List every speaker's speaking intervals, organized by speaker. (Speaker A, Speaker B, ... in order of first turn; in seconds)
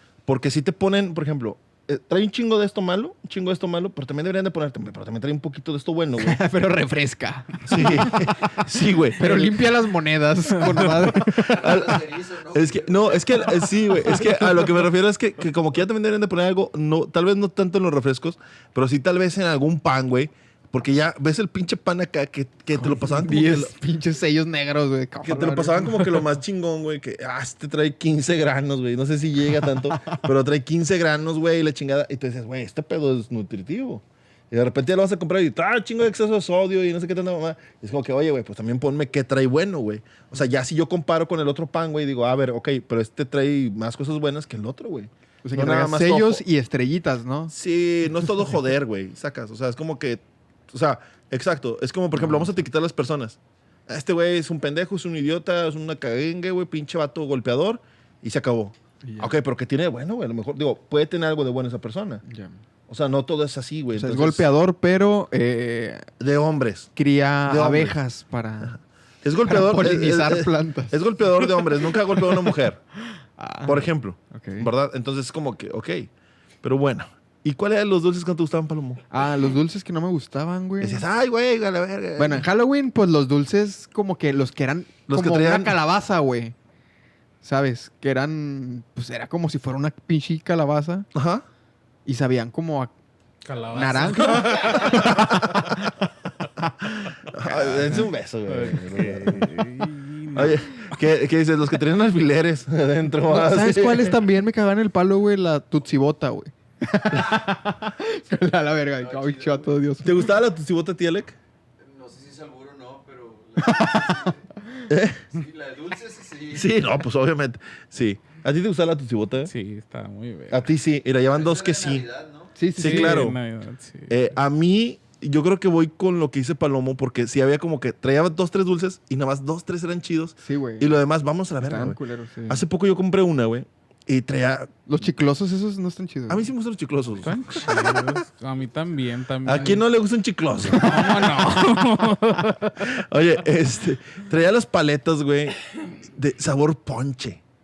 Speaker A: 0.2-6.4, 7.6-9.6, 10.8-23.7, 25.2-46.4, 47.5-62.2, 62.9-64.5, 66.2-66.9, 67.5-68.0, 68.6-72.8, 73.6-76.1, 76.6-79.0, 80.8-82.5, 85.1-85.8, 91.1-91.4, 94.5-95.4, 97.3-99.6, 100.3-104.2, 110.0-111.4, 114.9-115.2, 116.5-119.5, 120.5-122.1, 122.8-123.4, 124.1-132.0, 132.5-134.7, 136.3-138.2, 139.4-141.4, 142.8-147.4
Speaker B: 6.2-11.9, 14.1-14.6, 22.7-26.2, 29.9-30.2, 45.4-47.5, 52.1-52.6, 59.0-59.4, 62.2-62.6, 63.9-66.1, 67.0-68.8, 69.4-72.5, 73.4-74.7, 79.1-81.0, 82.2-86.5, 87.4-91.1, 92.1-92.9, 93.7-95.9, 96.8-97.1, 103.2-110.3, 113.6-114.3, 122.6-123.3, 130.4-130.9, 131.6-132.6, 134.9-136.5, 140.7-141.3
Speaker C: 11.2-14.2, 109.0-109.8, 111.8-114.5, 115.2-116.9, 121.2-122.6
Speaker D: 93.4-95.9, 97.5-100.9, 119.5-120.7, 122.8-124.2, 137.2-139.8, 140.7-143.0